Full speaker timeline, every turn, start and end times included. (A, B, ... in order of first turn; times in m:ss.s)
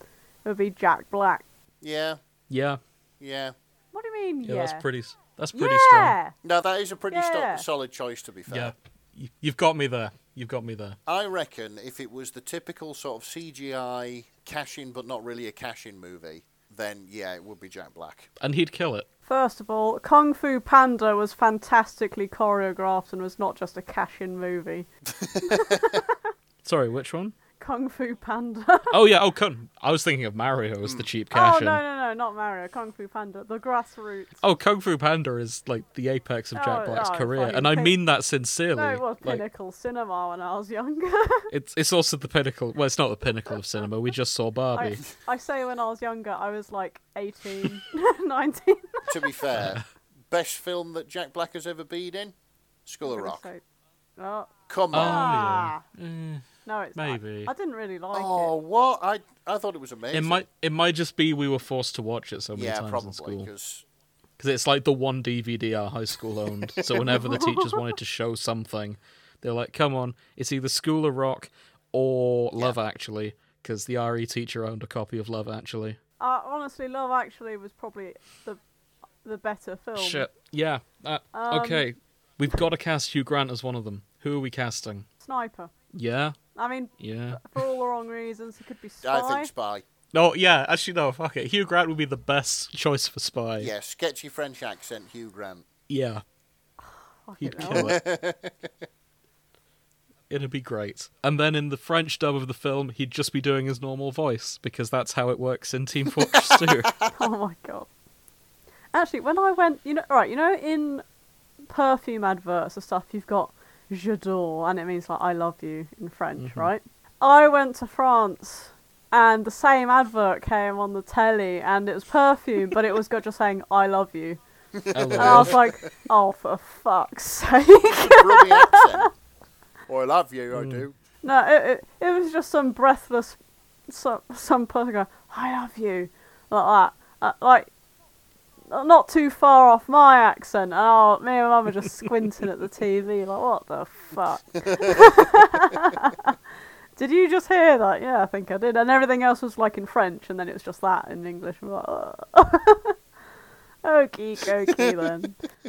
0:00.4-0:01.4 A
0:01.8-0:02.2 B
0:02.5-0:02.8 C
0:03.2-0:03.5 B
0:03.9-0:04.8 A
0:04.4-0:06.2 C
0:05.5-0:06.3 A
0:06.4-0:08.7 B
0:07.1-0:07.6 A
0:08.5-0:11.0 C
0:11.0-0:18.3 B
0:18.4-0:19.1 C
0:19.3-0:24.9 A
0:25.2-0:26.0 B
0:25.4-0:26.2 A
0:26.6-0:27.4 C
0:27.6-0:29.0 A
0:28.9-0:31.8 C
0:31.3-0:34.4 A
0:34.4-0:39.4 C
0:36.5-0:38.0 A
0:38.8-0:41.5 A
0:41.5-0:45.0 C
0:44.7-0:49.3 A
0:49.1-0:52.3 B
0:49.5-0:49.9 C
0:52.8-0:53.5 B
0:53.0-0:53.6 A
0:54.2-0:55.8 A
0:54.7-0:55.4 B
0:54.9-0:57.5 C
0:56.6-0:58.5 A
0:58.1-1:00.4 B
1:00.1-1:03.5 C
1:02.5-1:03.8 B
1:04.4-1:16.0 C
1:06.8-1:07.0 B
1:07.1-1:07.8 A
1:16.2-1:18.6 A
1:19.2-1:20.3 A
1:20.0-1:25.1 C
1:21.3-1:21.8 A
1:25.2-1:25.7 A
1:25.9-1:26.4 C
1:26.5-1:29.5 A
1:27.0-1:27.7 C
1:29.0-1:29.8 B
1:30.1-1:33.7 C
1:33.6-1:35.6 B
1:35.9-1:36.2 C
1:36.9-1:37.9 A
1:37.4-1:38.0 C
1:37.6-1:38.7 B
1:40.3-1:46.9 C
1:46.2-1:47.1 B
1:47.1-1:47.9 A
1:48.9-1:51.0 A
1:51.7-2:04.4 A
1:56.4-1:56.7 C
2:04.7-2:05.8 B
2:04.9-2:05.6 C
2:05.2-2:09.1 A
2:07.9-2:09.1 B
2:09.9-2:10.9 B
2:10.5-2:10.8 C
2:11.2-2:17.7 A
2:18.7-2:26.4 A
2:24.6-2:25.1 B
2:27.0-2:33.0 A
2:33.8-2:35.4 A
2:34.4-2:35.2 B